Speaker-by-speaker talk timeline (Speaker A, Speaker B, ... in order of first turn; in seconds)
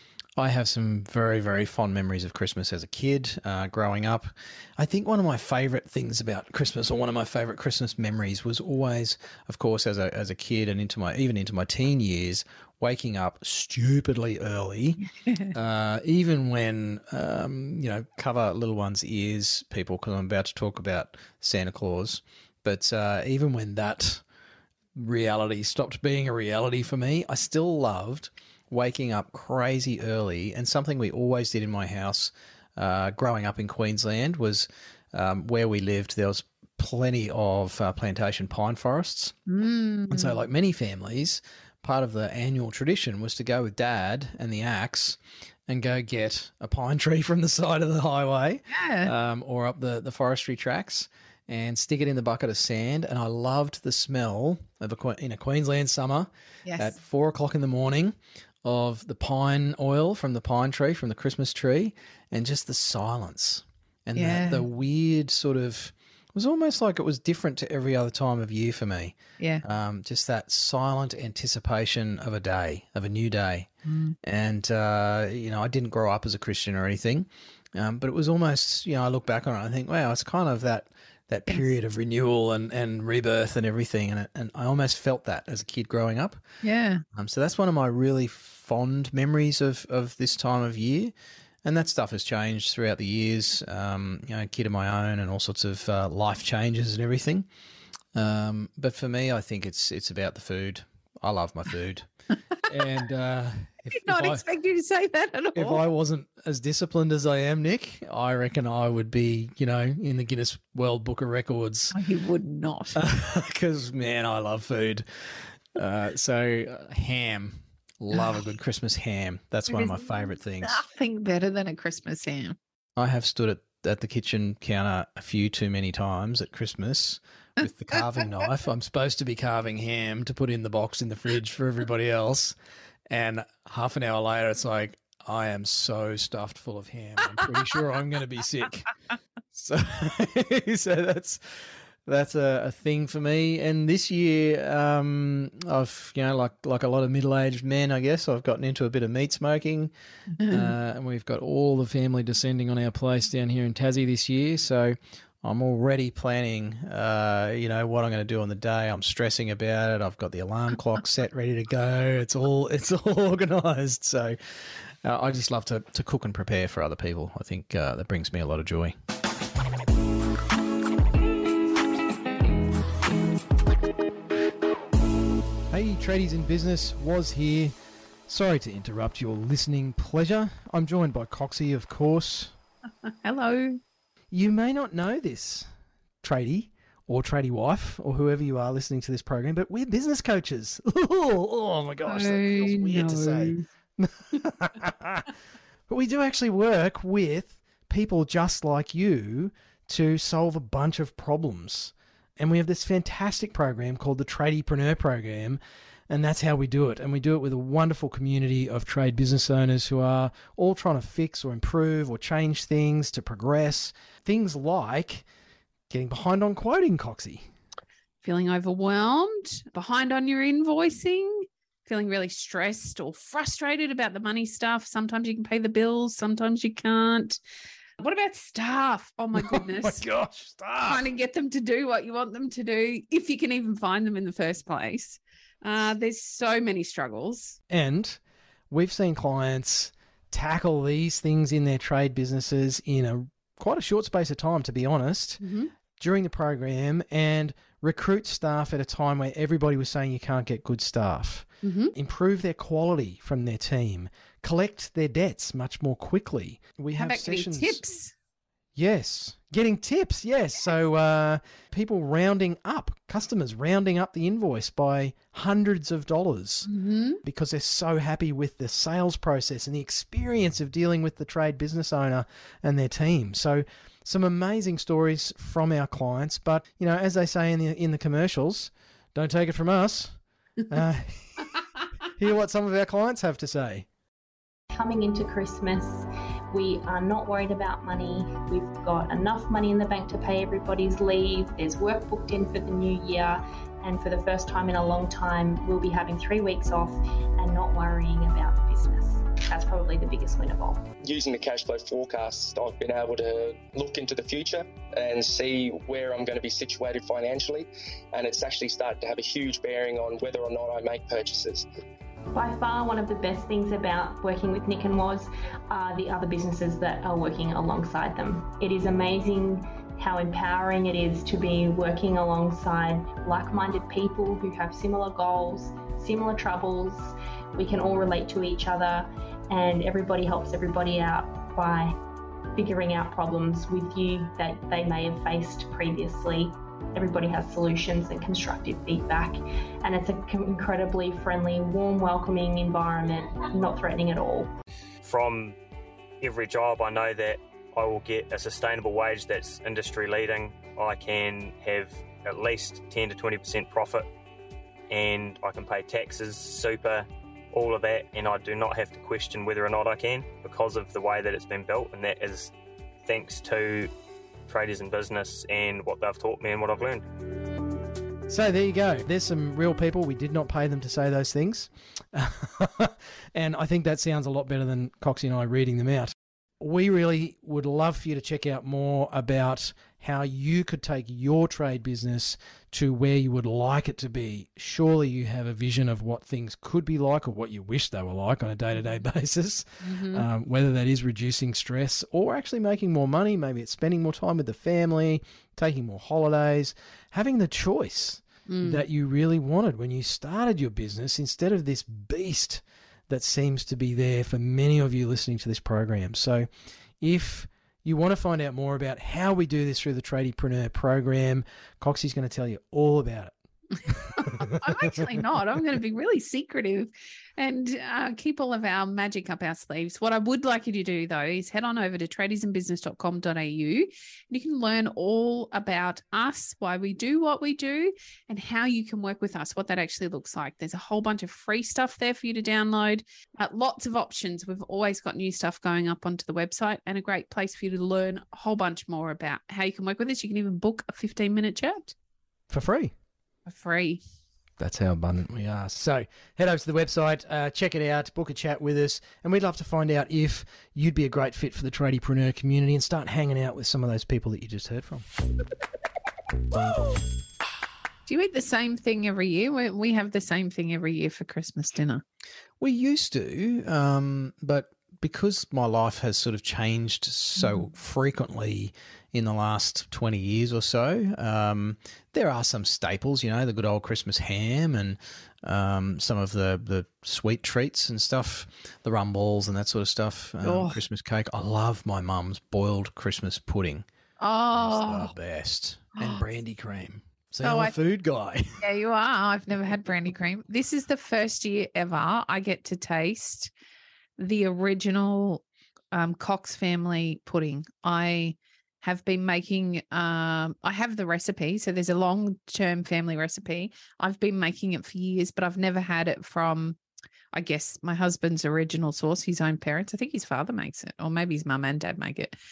Speaker A: 0.4-24.2, 25.0-39.3, 40.1-73.7, 74.2-86.4, 87.1-97.5, 98.2-102.1, 102.7-104.4, 105.5-112.0, 113.0-120.8, 123.0-132.6, 133.1-138.9, 139.5-149.9, 150.5-168.9, 175.7-177.7, 178.3-182.6, 184.3-185.7, 186.2-195.3, 195.9-215.2, 215.9-217.4, 229.3-231.1, 237.7-245.4, 246.0-257.8, 258.8-266.7, 267.2-280.2, 280.7-281.5, 282.2-283.9, 368.3-406.5, 407.0-413.3, 442.5-442.9, 444.6-455.1, 462.6-483.9, 484.5-488.4
Speaker B: 15.2-15.5, 39.5-40.4, 48.7-49.1, 56.7-57.0, 64.2-64.6, 73.8-74.2, 86.6-87.0, 103.9-105.8, 111.9-113.0, 119.7-120.1, 120.6-122.6, 183.1-183.8, 192.1-193.7, 218.2-227.4, 228.0-230.1, 230.8-237.6, 245.4-245.7, 251.6-251.9, 256.9-258.1, 266.6-267.2, 389.8-390.3, 398.5-398.8, 414.1-441.9, 443.5-444.0, 458.1-462.0, 480.4-480.8, 484.2-485.1, 487.4-487.8, 488.6-493.5, 494.2-506.8, 507.3-512.4
Speaker C: 284.7-300.8, 312.3-331.9, 332.6-344.5
Speaker D: 301.1-311.6
Speaker E: 345.0-345.6, 346.2-354.1, 354.9-362.5, 363.1-363.9, 364.5-367.1